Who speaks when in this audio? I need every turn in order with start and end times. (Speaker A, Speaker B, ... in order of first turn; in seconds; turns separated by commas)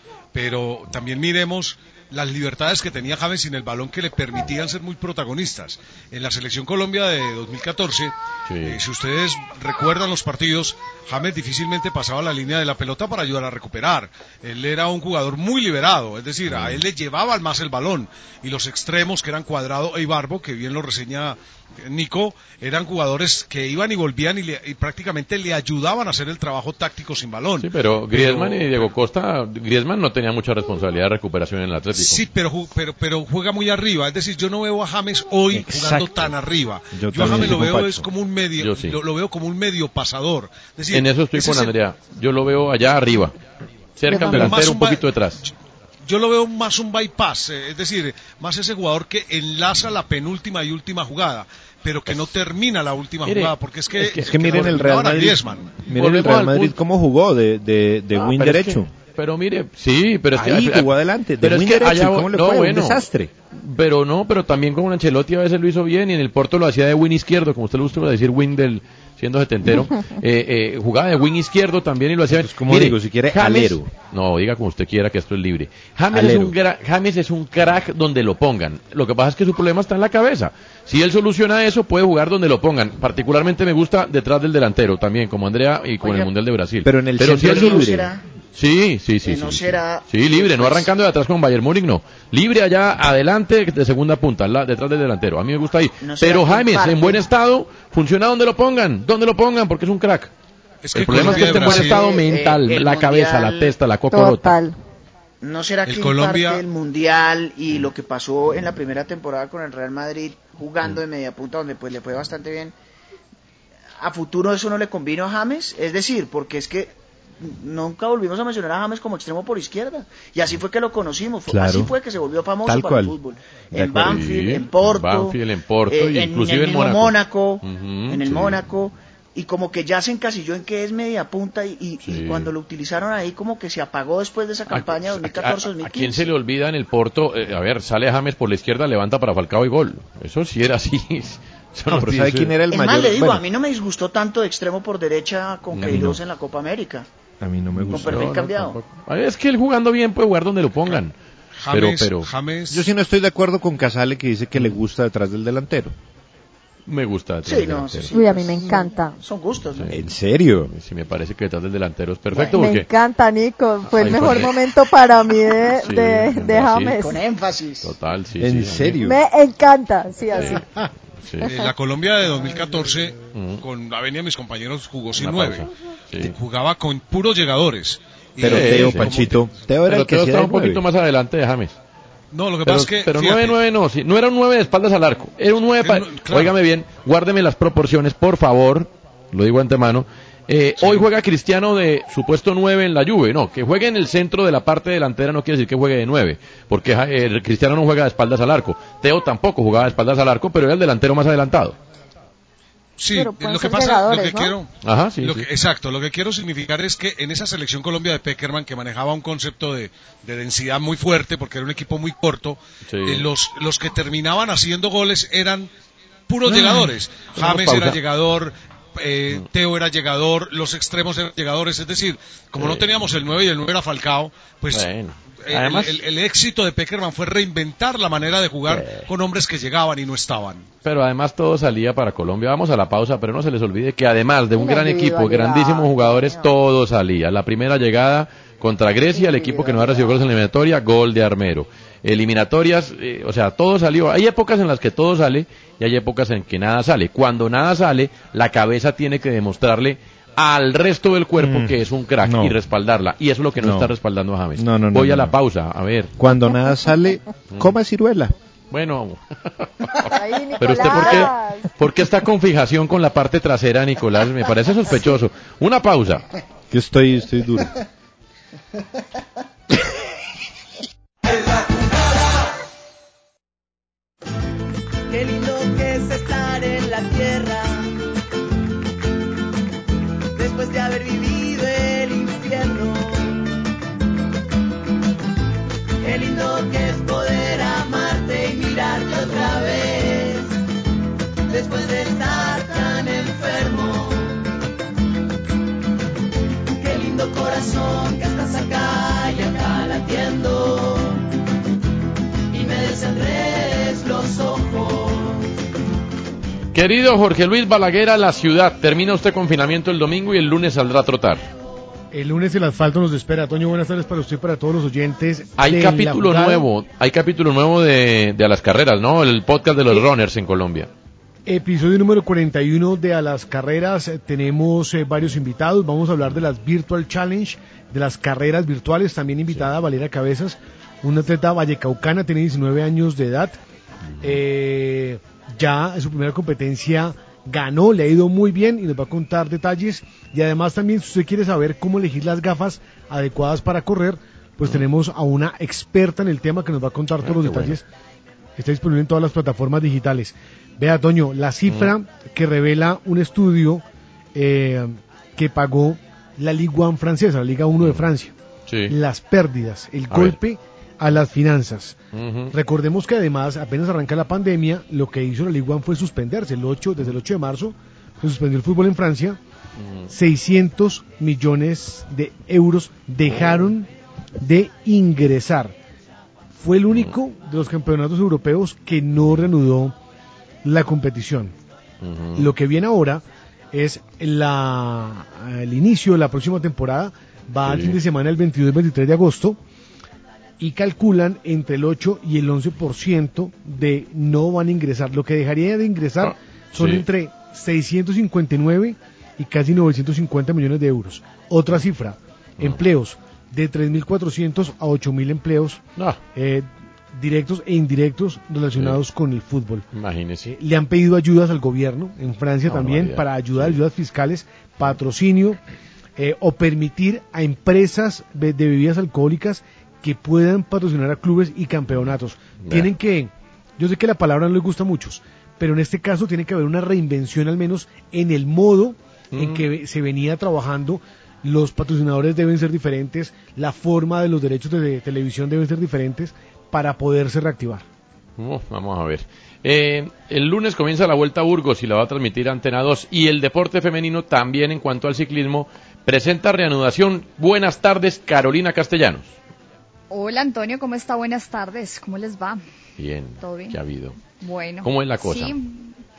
Speaker A: 0.3-28.7, Speaker B: 8.5-8.8, Speaker B: 16.5-16.8, Speaker B: 27.6-32.2, Speaker A: 31.9-41.7, Speaker C: 35.5-36.3, Speaker C: 36.9-38.1, Speaker B: 38.6-39.0, Speaker B: 40.9-43.3, Speaker B: 44.0-45.4, Speaker D: 44.1-44.6, Speaker A: 44.1-45.5, Speaker A: 46.0-55.7, Speaker B: 53.2-54.8, Speaker C: 54.1-58.9, Speaker B: 55.9-56.8, Speaker B: 58.1-60.9, Speaker C: 60.3-63.3, Speaker B: 61.4-87.9, Speaker C: 72.3-73.9, Speaker C: 76.1-76.5, Speaker E: 86.0-86.3, Speaker C: 86.8-88.1, Speaker E: 87.3-88.2, Speaker B: 88.5-100.3, Speaker E: 89.2-90.9, Speaker E: 96.0-97.2, Speaker A: 100.8-102.0, Speaker B: 100.9-104.6, Speaker E: 101.1-103.7, Speaker D: 104.1-104.8, Speaker E: 105.4-112.7, Speaker A: 105.8-106.6, Speaker E: 114.0-125.4, Speaker C: 121.5-121.9, Speaker C: 122.7-123.1, Speaker C: 123.7-124.2, Speaker B: 123.9-128.6, Speaker E: 125.9-136.3, Speaker B: 132.1-132.5, Speaker B: 134.7-142.5, Speaker C: 141.9-143.4, Speaker E: 142.7-147.1, Speaker C: 145.7-146.2, Speaker C: 147.4-148.3, Speaker B: 147.7-151.2, Speaker E: 147.9-148.8, Speaker A: 151.6-152.9, Speaker B: 151.7-152.3, Speaker C: 152.7-155.9, Speaker B: 156.9-158.1, Speaker E: 157.4-159.9, Speaker D: 158.1-159.2, Speaker C: 159.9-160.7, Speaker B: 160.7-162.9, Speaker D: 162.5-167.2, Speaker B: 163.9-164.6, Speaker B: 165.8-167.0, Speaker E: 167.0-167.9, Speaker B: 167.8-169.1, Speaker C: 168.4-169.2, Speaker D: 169.0-170.6, Speaker B: 171.2-171.5, Speaker A: 171.5-179.5, Speaker B: 173.3-173.6, Speaker B: 175.2-176.3, Speaker C: 178.4-180.8, Speaker B: 178.4-179.3, Speaker B: 179.8-181.7, Speaker A: 182.3-183.6, Speaker B: 182.6-201.8, Speaker A: 185.8-186.6, Speaker A: 203.0-215.7, Speaker D: 203.1-204.5, Speaker B: 204.8-205.5, Speaker B: 212.8-213.3, Speaker A: 216.3-224.9, Speaker B: 216.5-218.0, Speaker B: 222.6-223.2, Speaker B: 224.7-226.0, Speaker A: 225.4-230.7, Speaker B: 228.7-229.1, Speaker B: 230.8-256.1, Speaker D: 234.5-236.5, Speaker D: 239.1-239.9, Speaker C: 251.4-252.6, Speaker C: 253.6-253.9, Speaker C: 254.6-255.3, Speaker C: 256.2-258.3, Speaker B: 258.7-266.2, Speaker D: 260.1-261.7, Speaker C: 266.7-267.7, Speaker F: 271.3-272.2, Speaker F: 275.1-277.9, Speaker F: 280.4-283.4, Speaker F: 286.0-290.5, Speaker F: 291.5-294.3, Speaker F: 296.8-301.2, Speaker F: 302.5-305.4, Speaker B: 306.7-311.4, Speaker G: 312.1-316.7, Speaker B: 315.6-320.9, Speaker G: 321.4-333.6, Speaker B: 334.1-334.4, Speaker G: 334.2-347.8, Speaker B: 347.2-347.8, Speaker G: 348.6-353.8, Speaker B: 351.7-351.9, Speaker G: 354.3-358.3, Speaker B: 357.8-358.1, Speaker B: 358.7-358.9, Speaker G: 358.9-362.0, Speaker B: 360.1-360.4, Speaker B: 362.1-362.5, Speaker G: 362.5-369.4, Speaker B: 369.8-370.1, Speaker G: 370.1-373.9, Speaker B: 373.2-373.7, Speaker G: 374.4-375.7, Speaker G: 376.6-379.9, Speaker B: 376.9-377.2, Speaker G: 380.6-381.5, Speaker B: 382.0-382.5, Speaker G: 382.4-389.6, Speaker B: 387.6-388.0, Speaker G: 390.6-405.8, Speaker B: 396.2-397.0, Speaker G: 406.3-409.8, Speaker B: 408.7-409.0, Speaker B: 409.9-410.5, Speaker G: 410.4-415.6, Speaker B: 412.6-413.8, Speaker G: 416.2-437.8, Speaker B: 421.9-422.9, Speaker B: 429.3-429.6, Speaker B: 438.4-449.3, Speaker H: 450.1-452.6, Speaker B: 453.0-454.2, Speaker H: 453.4-456.0, Speaker B: 454.8-455.6